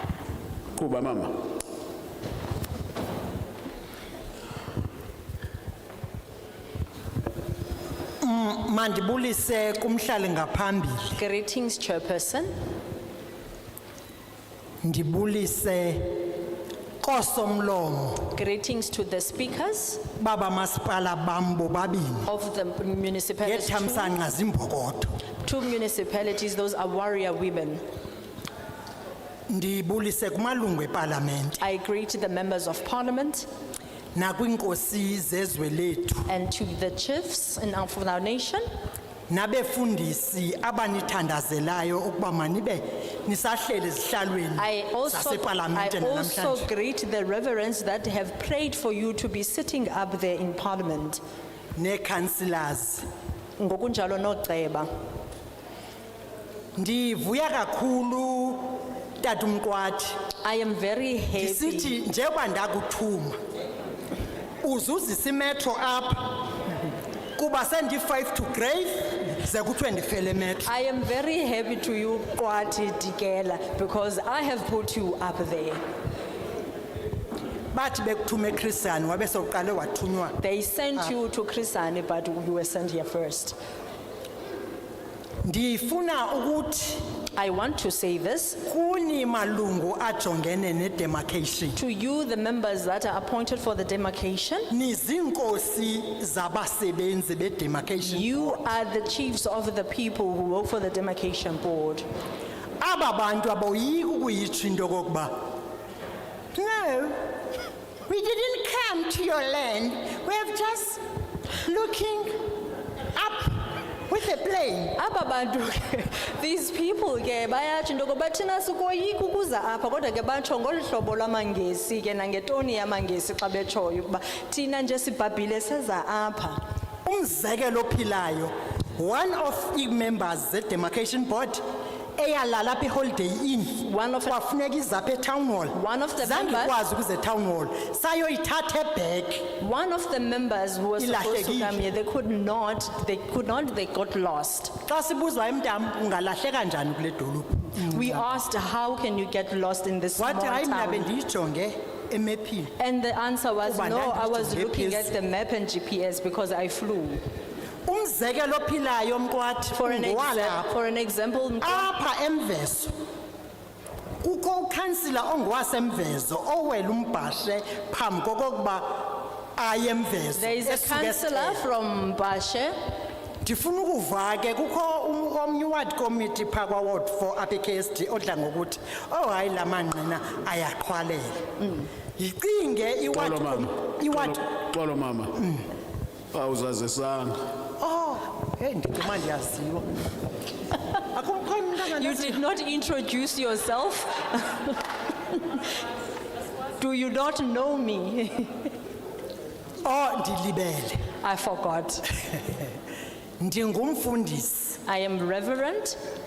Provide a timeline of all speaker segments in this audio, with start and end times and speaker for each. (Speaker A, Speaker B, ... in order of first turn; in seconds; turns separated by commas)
Speaker A: 0.7-1.4, Speaker B: 8.2-11.2, Speaker C: 11.2-12.5, Speaker B: 14.8-16.3, Speaker B: 17.0-18.3, Speaker C: 18.3-20.0, Speaker B: 20.2-22.3, Speaker C: 22.2-24.1, Speaker B: 23.4-25.1, Speaker C: 25.4-27.8, Speaker B: 29.5-31.6, Speaker C: 31.6-33.5, Speaker B: 34.1-36.3, Speaker C: 36.3-38.6, Speaker B: 39.3-46.7, Speaker C: 44.6-51.2, Speaker B: 51.8-53.1, Speaker C: 53.6-54.9, Speaker B: 56.8-60.2, Speaker C: 60.4-62.0, Speaker B: 61.4-63.4, Speaker B: 64.6-66.5, Speaker B: 67.4-70.7, Speaker C: 70.6-75.8, Speaker B: 77.7-80.4, Speaker C: 80.4-83.6, Speaker B: 85.4-87.0, Speaker C: 87.3-88.6, Speaker B: 88.7-91.8, Speaker C: 91.8-94.7, Speaker B: 94.7-98.5, Speaker C: 98.0-102.0, Speaker B: 102.8-105.3, Speaker B: 106.5-107.2, Speaker B: 108.1-111.0, Speaker B: 111.6-112.5, Speaker B: 113.1-115.0, Speaker C: 114.9-126.6, Speaker B: 127.0-131.6, Speaker B: 132.2-139.5, Speaker C: 133.8-134.3, Speaker C: 135.7-136.7, Speaker C: 139.6-144.8, Speaker B: 141.0-141.8, Speaker B: 144.8-148.2, Speaker C: 147.8-151.1, Speaker B: 150.2-152.7, Speaker C: 152.8-157.2, Speaker B: 153.6-155.1, Speaker B: 157.8-160.7, Speaker C: 159.7-161.9, Speaker B: 161.6-162.9, Speaker B: 164.2-171.6, Speaker C: 170.3-172.7, Speaker B: 173.4-181.5, Speaker B: 182.2-184.5, Speaker A: 183.2-185.4, Speaker B: 185.4-185.6, Speaker A: 186.3-187.4, Speaker B: 187.8-189.9, Speaker B: 191.1-192.4, Speaker C: 192.0-194.8, Speaker C: 196.8-198.7, Speaker B: 199.8-201.0, Speaker C: 201.2-202.1, Speaker B: 203.4-204.8, Speaker C: 204.8-206.0